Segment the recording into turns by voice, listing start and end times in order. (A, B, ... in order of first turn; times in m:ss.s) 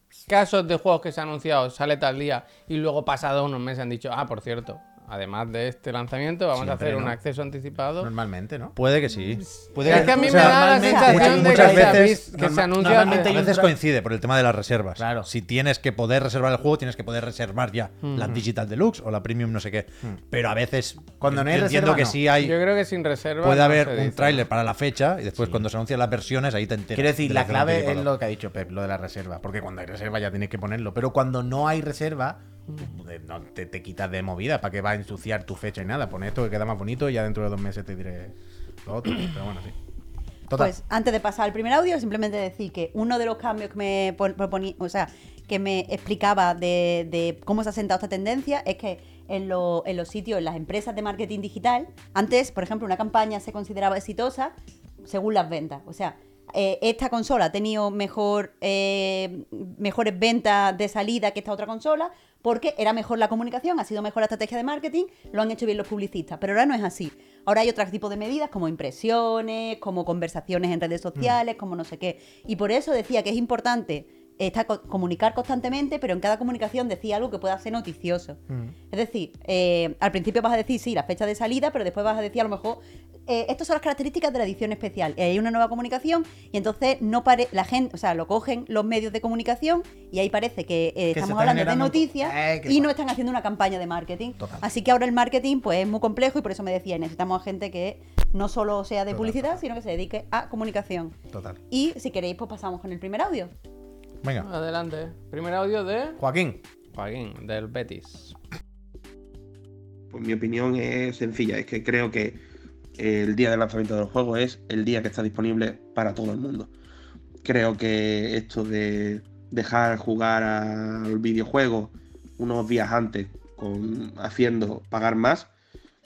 0:00.3-0:08.1 A
0:06.6-0:07.2 B
0:08.0-0:08.8 B
0:08.8-0:12.2 C
0:09.8-0:13.7 B
0:09.8-0:13.3 A
0:12.8-0:22.6 C
0:15.0-0:15.3 B
0:21.2-0:22.2 B
0:22.4-0:24.4 A
0:23.4-0:28.1 C
0:26.9-0:38.3 B
0:38.9-0:39.8 B
0:40.5-0:54.5 D
0:55.1-1:18.4 D
1:18.9-1:41.2 D
1:31.1-1:32.9 B
1:34.4-1:34.6 B
1:39.1-1:39.6 B
1:41.3-1:41.6 B
1:41.7-1:43.5 D
1:44.4-1:46.2 A
1:46.2-1:46.6 B
1:46.9-1:48.4 A
1:50.1-1:52.4 E
1:53.0-1:56.7 E
1:57.4-2:05.5 E